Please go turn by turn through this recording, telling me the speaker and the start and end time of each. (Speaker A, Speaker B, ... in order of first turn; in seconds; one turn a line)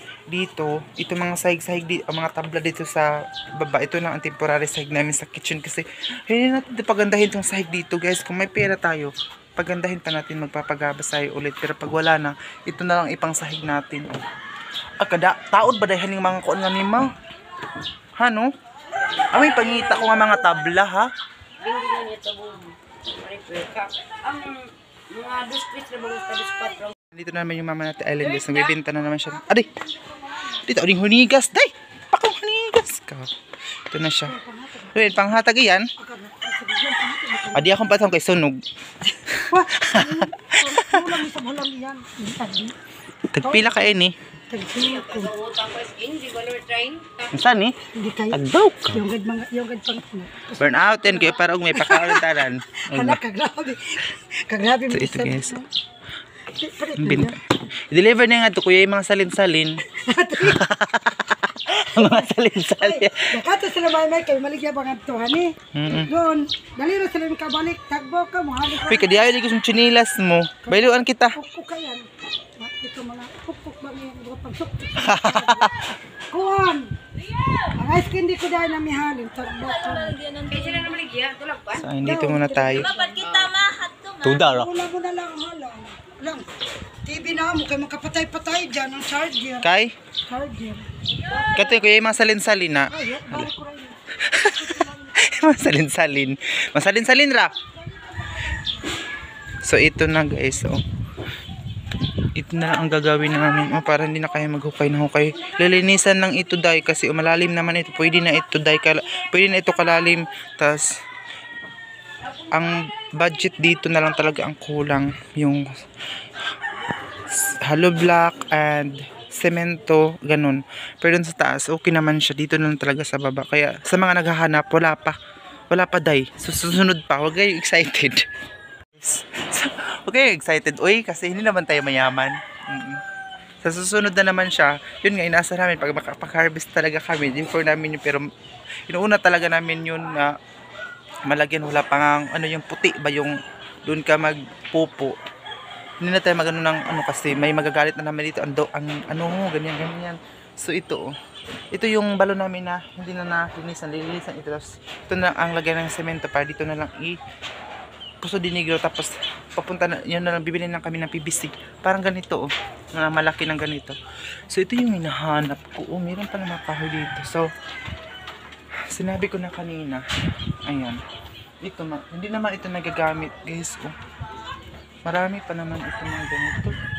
Speaker A: 0.3-14.2
Speaker A: 15.0-17.1
Speaker A: 18.2-18.5
Speaker A: 19.3-21.1
Speaker B: 21.6-26.9
Speaker A: 27.1-29.8
Speaker A: 30.5-33.3
Speaker A: 33.9-34.4
Speaker C: 34.3-35.1
Speaker A: 34.9-35.9
Speaker C: 36.0-37.7
Speaker A: 37.5-41.1
Speaker C: 39.5-42.8
Speaker A: 43.3-44.2
Speaker C: 43.4-43.9
Speaker C: 44.5-45.4
Speaker B: 45.1-47.3
Speaker A: 47.3-47.8
Speaker C: 47.9-52.3
Speaker A: 48.3-49.0
Speaker A: 50.6-53.2
Speaker C: 52.9-55.7
Speaker A: 54.9-55.6
Speaker C: 56.5-57.4
Speaker A: 57.0-59.8
Speaker C: 59.9-60.7
Speaker A: 60.4-63.4
Speaker C: 62.0-62.2
Speaker C: 62.8-69.3
Speaker A: 65.7-66.1
Speaker A: 68.8-71.4
Speaker C: 70.7-75.7
Speaker A: 75.0-75.9
Speaker C: 76.3-76.9
Speaker C: 77.7-81.0
Speaker B: 80.6-81.8
Speaker A: 81.8-83.0
Speaker C: 81.9-86.5
Speaker B: 83.2-83.9
Speaker A: 84.1-84.7
Speaker C: 87.0-89.7
Speaker A: 89.6-90.0
Speaker C: 90.3-90.9
Speaker A: 91.5-93.5
Speaker C: 92.9-95.2
Speaker A: 94.1-97.6
Speaker A: 99.6-100.8
Speaker A: 102.3-110.9
Speaker A: 112.5-115.6
Speaker A: 117.3-125.2
Speaker A: 125.7-128.3
Speaker A: 128.9-133.0
Speaker A: 133.6-138.3
Speaker A: 138.9-140.3
Speaker A: 141.3-145.2
Speaker A: 146.0-151.1
Speaker A: 151.7-157.2
Speaker A: 158.2-164.0
Speaker A: 164.5-167.5
Speaker A: 168.9-170.1
Speaker A: 170.7-171.0
Speaker A: 171.6-173.9
Speaker A: 175.1-176.8